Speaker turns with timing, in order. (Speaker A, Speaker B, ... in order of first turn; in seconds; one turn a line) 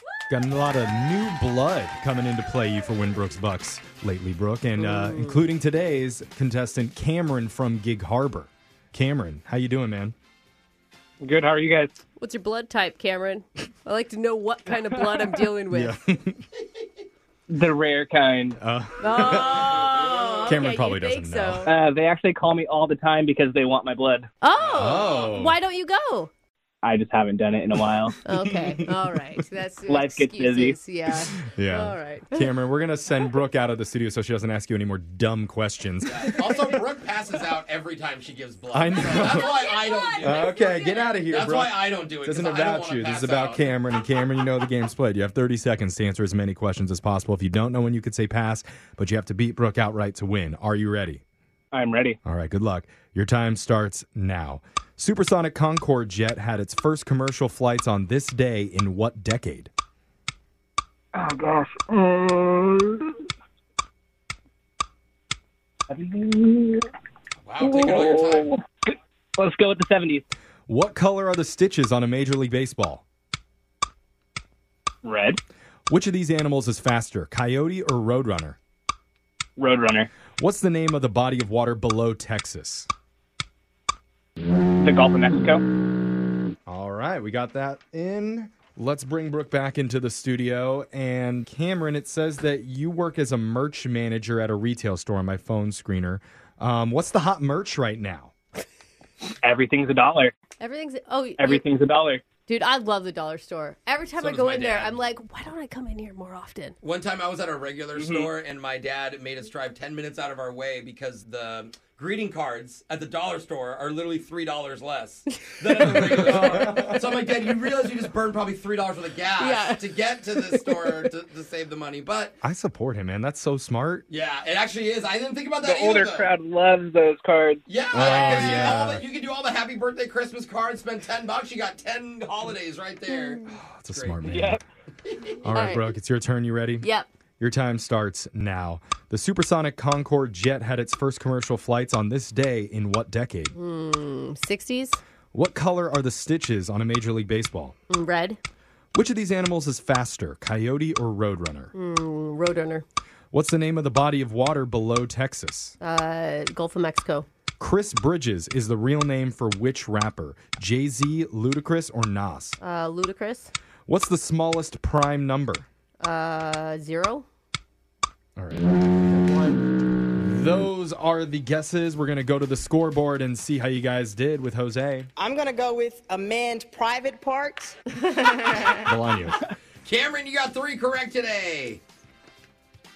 Speaker A: 0.3-10.1
Speaker B: 4.8-5.4
Speaker C: 11.2-11.9
Speaker B: 12.2-16.0
Speaker A: 15.7-16.4
Speaker C: 17.5-18.6
Speaker A: 18.6-19.8
Speaker B: 19.0-21.7
Speaker D: 19.2-20.6
Speaker A: 20.4-21.7
Speaker C: 21.6-24.3
Speaker B: 24.4-26.3
Speaker D: 24.6-25.3
Speaker A: 24.8-25.6
Speaker C: 26.8-28.1
Speaker B: 28.2-32.5
Speaker A: 28.4-28.9
Speaker C: 29.9-30.8
Speaker A: 31.3-36.7
Speaker D: 36.0-40.6
Speaker A: 38.7-39.5
Speaker B: 39.2-41.0
Speaker A: 40.2-51.2
Speaker D: 41.2-43.7
Speaker C: 51.7-52.2
Speaker A: 52.2-59.7
Speaker C: 61.1-63.1
Speaker C: 65.9-66.9
Speaker D: 67.4-68.5
Speaker C: 67.6-70.2
Speaker A: 70.7-73.0
Speaker C: 75.0-75.4
Speaker A: 75.9-78.6
Speaker C: 79.6-80.1
Speaker A: 80.4-82.9
Speaker C: 84.8-85.6
Speaker A: 86.7-98.3
Speaker C: 99.4-100.3
Speaker B: 100.6-101.6
Speaker C: 101.4-102.2
Speaker B: 102.5-106.8
Speaker D: 104.2-105.0
Speaker D: 106.8-122.3
Speaker C: 108.0-108.3
Speaker A: 115.9-117.2
Speaker B: 119.4-120.9
Speaker A: 122.4-124.0
Speaker D: 124.1-126.3
Speaker C: 125.6-127.6
Speaker D: 127.7-134.4
Speaker A: 127.9-129.0
Speaker B: 128.1-128.7
Speaker A: 133.5-134.6
Speaker C: 134.2-134.6
Speaker A: 135.4-136.9
Speaker B: 135.5-135.9
Speaker B: 136.8-137.1
Speaker A: 137.4-143.5
Speaker B: 143.5-145.0
Speaker A: 145.3-147.8
Speaker B: 147.9-148.4
Speaker A: 148.9-151.7
Speaker B: 151.7-152.8
Speaker A: 153.3-155.7
Speaker B: 155.8-157.3
Speaker A: 157.6-162.6
Speaker B: 162.6-163.5
Speaker A: 163.9-165.7
Speaker B: 166.0-167.2
Speaker A: 168.4-169.6
Speaker A: 170.1-175.1
Speaker E: 175.2-177.8
Speaker A: 178.8-179.4
Speaker D: 179.8-181.8